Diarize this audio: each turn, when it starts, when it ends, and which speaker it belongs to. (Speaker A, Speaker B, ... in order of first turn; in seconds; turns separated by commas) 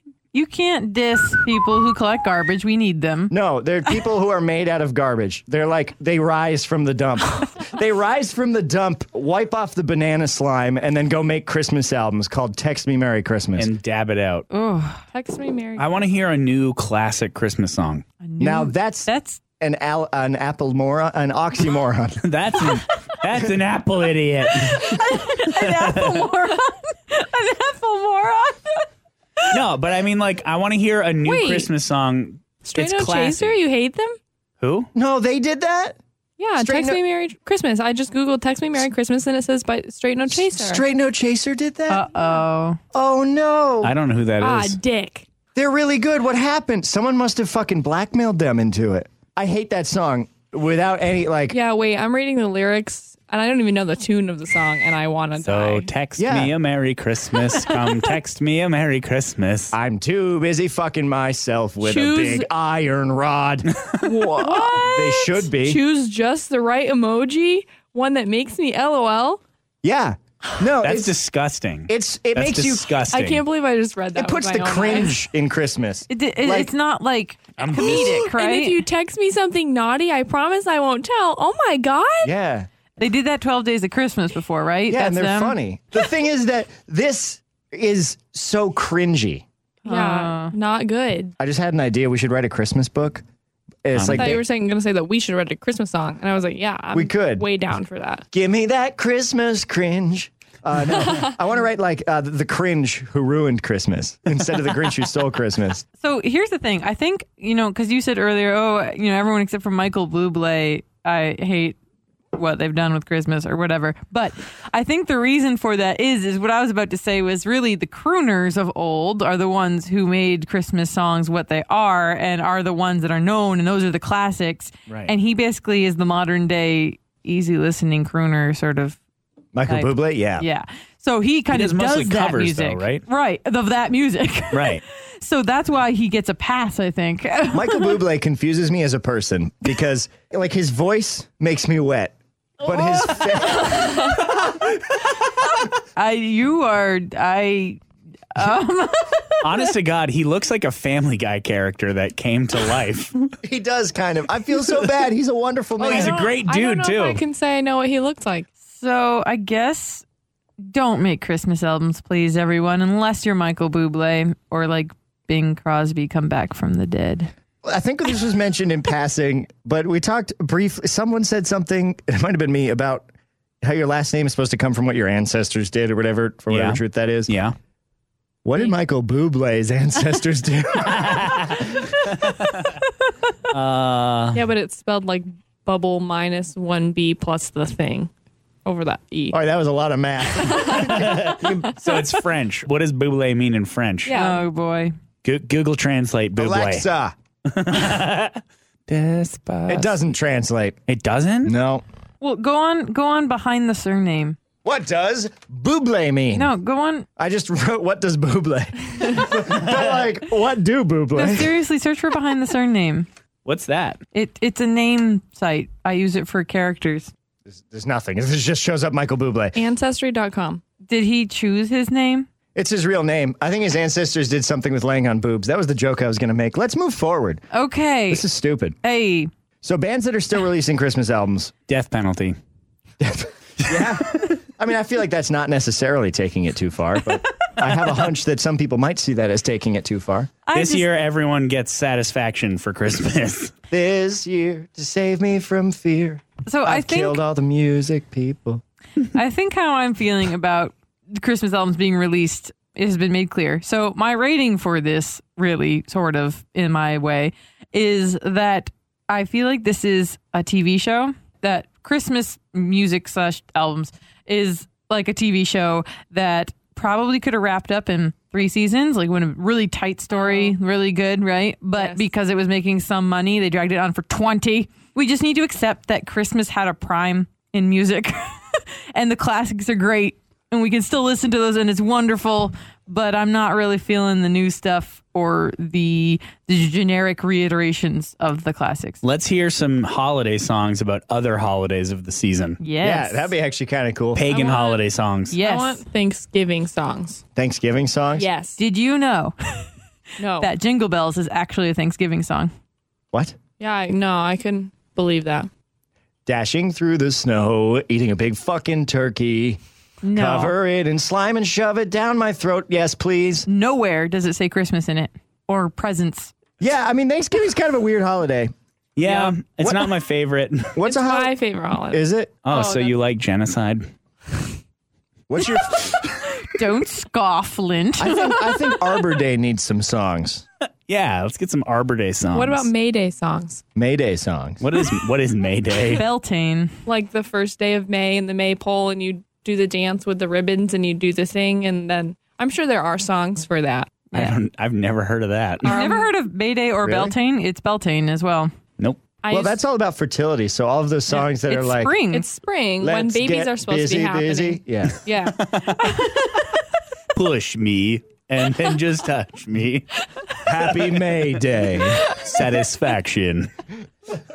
Speaker A: 0.3-3.3, Speaker B: 3.3-13.7, Speaker C: 13.6-14.4, Speaker A: 14.5-15.0, Speaker D: 15.1-15.9, Speaker C: 15.8-18.0, Speaker A: 18.2-19.4, Speaker B: 18.4-22.2, Speaker C: 22.2-26.3, Speaker A: 24.8-28.9, Speaker C: 29.5-33.6, Speaker D: 31.2-31.7, Speaker D: 32.7-34.2, Speaker C: 34.6-34.9, Speaker B: 34.9-36.0, Speaker D: 36.4-40.8, Speaker B: 36.6-37.0, Speaker B: 40.3-42.1, Speaker A: 41.9-42.8, Speaker B: 42.9-43.9, Speaker C: 43.8-44.8, Speaker D: 44.4-45.2, Speaker B: 45.5-51.6, Speaker D: 51.5-55.9, Speaker C: 55.4-59.7, Speaker B: 56.2-56.5, Speaker B: 59.7-65.8, Speaker D: 61.8-62.5, Speaker D: 64.0-69.4, Speaker B: 69.8-71.2, Speaker C: 70.8-73.4, Speaker B: 71.9-73.0, Speaker D: 73.1-75.2, Speaker B: 74.1-76.7, Speaker A: 76.1-78.8, Speaker C: 77.6-78.2, Speaker D: 77.8-82.3, Speaker B: 82.2-82.7, Speaker A: 83.0-85.6, Speaker B: 84.9-89.4, Speaker A: 89.8-90.5, Speaker D: 89.9-91.3, Speaker B: 91.4-93.2, Speaker B: 93.8-94.4, Speaker C: 93.9-94.3, Speaker D: 94.1-98.2, Speaker B: 96.9-97.5, Speaker B: 98.3-105.8, Speaker A: 106.0-111.8, Speaker A: 112.3-129.0, Speaker B: 129.5-130.4, Speaker A: 129.7-138.0, Speaker C: 131.5-133.0, Speaker C: 134.5-134.8, Speaker B: 137.5-144.6, Speaker A: 142.7-143.4, Speaker A: 146.0-147.8, Speaker A: 148.3-149.6, Speaker C: 149.4-153.3, Speaker B: 153.4-156.2, Speaker D: 155.8-158.5, Speaker C: 155.8-157.2, Speaker A: 158.7-160.0, Speaker A: 160.6-167.3, Speaker B: 167.6-173.1, Speaker B: 173.6-177.3, Speaker C: 176.5-177.5, Speaker B: 178.4-181.9, Speaker C: 181.0-181.7, Speaker C: 182.2-182.6, Speaker C: 183.5-184.4, Speaker D: 184.3-188.1, Speaker D: 188.6-189.3, Speaker B: 189.3-191.6, Speaker D: 190.4-191.2, Speaker C: 190.7-194.1, Speaker D: 194.0-194.5, Speaker A: 194.1-194.9, Speaker C: 195.2-196.8, Speaker B: 196.3-197.1, Speaker C: 197.5-199.9, Speaker B: 199.7-200.8, Speaker C: 200.9-201.5, Speaker B: 201.4-201.8, Speaker A: 202.2-204.4, Speaker B: 204.6-206.5, Speaker A: 206.3-207.1, Speaker B: 207.2-211.5, Speaker C: 209.6-209.8, Speaker A: 211.1-213.1, Speaker C: 213.4-214.0, Speaker A: 214.1-217.1, Speaker B: 217.5-219.6, Speaker D: 219.5-220.6, Speaker A: 220.8-222.3, Speaker B: 222.5-227.4, Speaker A: 227.5-228.2, Speaker B: 228.1-228.8, Speaker A: 228.8-229.3, Speaker B: 229.6-231.5, Speaker C: 231.7-232.3, Speaker B: 233.0-240.3, Speaker C: 233.7-234.3, Speaker A: 240.5-240.9, Speaker C: 240.5-243.5, Speaker B: 243.7-248.6, Speaker A: 246.5-247.2, Speaker A: 249.1-289.0, Speaker D: 270.1-270.6, Speaker D: 271.8-272.1, Speaker C: 289.0-292.6, Speaker A: 292.6-293.3, Speaker B: 292.8-294.2, Speaker C: 294.1-295.4, Speaker D: 294.3-294.8, Speaker A: 295.3-295.9, Speaker D: 295.4-297.2, Speaker B: 297.4-298.2, Speaker D: 298.1-298.6, Speaker A: 298.6-299.7, Speaker D: 300.2-300.5, Speaker A: 300.4-302.5, Speaker D: 303.6-305.5, Speaker B: 306.2-309.6, Speaker A: 310.0-310.6, Speaker B: 310.1-313.5, Speaker A: 313.5-316.3, Speaker B: 316.6-318.5, Speaker C: 319.0-320.8, Speaker B: 319.0-319.9, Speaker B: 320.7-321.3, Speaker D: 320.8-323.0, Speaker B: 321.9-322.3, Speaker C: 322.4-323.9, Speaker B: 325.3-326.1, Speaker A: 326.4-328.5, Speaker B: 328.0-330.4, Speaker C: 330.9-332.7, Speaker D: 332.3-333.6, Speaker B: 333.8-334.6, Speaker C: 334.6-336.0, Speaker A: 335.9-336.7, Speaker D: 336.9-344.0, Speaker C: 344.1-345.7, Speaker D: 345.6-346.1, Speaker A: 345.6-348.5, Speaker B: 346.8-347.1, Speaker D: 349.2-349.6, Speaker B: 349.3-352.0, Speaker A: 351.1-352.2, Speaker D: 352.1-355.4, Speaker B: 352.8-355.0, Speaker C: 355.4-356.3, Speaker C: 357.1-359.9, Speaker B: 360.4-362.1, Speaker C: 362.0-363.5